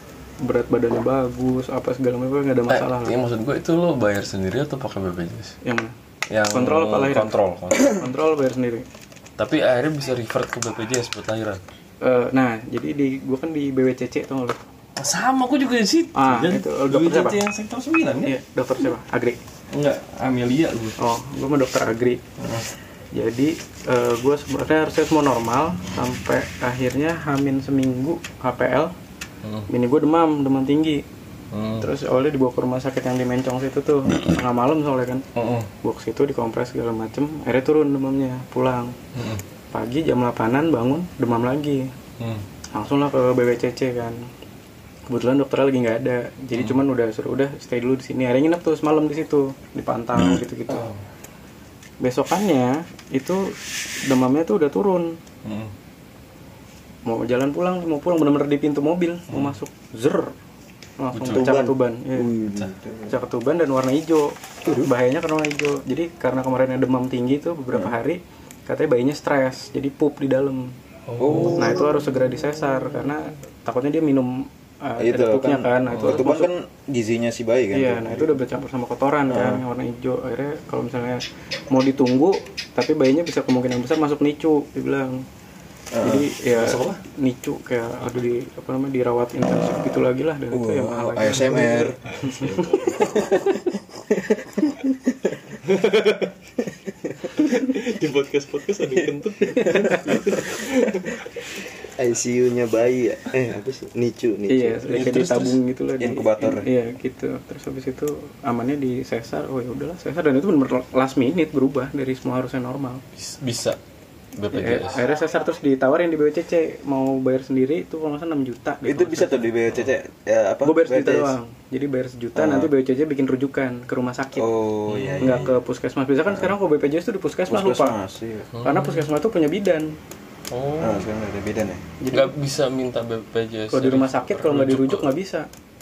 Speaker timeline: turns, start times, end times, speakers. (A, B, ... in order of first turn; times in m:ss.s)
0:00.4-0:03.1 A
0:02.7-0:05.6 B
0:05.6-0:05.9 A
0:06.3-0:08.0 B
0:06.5-0:08.8 A
0:09.4-0:11.6 B
0:12.0-0:14.6 A
0:15.0-0:18.4 B
0:16.1-0:17.4 A
0:18.2-0:19.4 A
0:19.7-0:21.0 B
0:21.0-0:22.2 A
0:22.4-0:22.6 B
0:23.1-0:28.9 A
0:29.4-0:29.7 B
0:29.7-0:31.0 A
0:31.5-0:31.9 B
0:31.8-0:35.2 A
0:35.3-0:35.7 B
0:35.8-0:39.0 A
0:39.2-0:39.4 B
0:39.7-0:41.9 A
0:42.2-0:42.4 B
0:42.7-0:44.2 A
0:45.1-0:50.9 A
0:46.5-0:46.8 B
0:50.2-0:51.0 B
0:52.0-0:55.2 A
0:55.4-0:55.7 B
0:57.0-1:00.3 A
0:59.3-0:59.6 B
1:01.0-1:02.3 A
1:01.1-1:01.5 B
1:01.3-1:02.7 C
1:02.5-1:03.1 D
1:03.1-1:10.7 A
1:04.6-1:04.9 D
1:11.1-1:11.9 B
1:11.2-1:12.0 D
1:11.5-1:16.5 A
1:15.0-1:18.4 D
1:15.9-1:16.2 B
1:17.7-1:25.2 A
1:19.3-1:19.6 D
1:25.9-1:26.3 D
1:26.0-1:32.4 A
1:26.4-1:27.0 B
1:30.5-1:32.0 D
1:32.1-1:33.3 B
1:33.0-1:35.4 D
1:35.6-1:36.3 B
1:36.9-1:37.3 D
1:37.3-1:41.2 B
1:38.9-1:40.4 D
1:41.9-1:45.1 C
1:44.5-1:53.0 A
1:44.9-1:45.6 B
1:46.0-1:46.7 D
1:53.1-1:53.8 B
1:54.4-1:55.0 B
1:54.5-1:59.5 A
1:58.8-2:01.4 D
2:00.6-2:04.5 A
2:02.3-2:02.7 D
2:04.4-2:05.6 D
2:04.9-2:05.5 B
2:05.2-2:07.9 A
2:06.3-2:06.5 D
2:07.5-2:08.5 D
2:08.5-2:09.1 B
2:08.6-2:10.0 A
2:10.5-2:11.0 B
2:10.8-2:11.8 D
2:12.0-2:12.3 A
2:12.1-2:15.1 B
2:13.7-2:15.5 A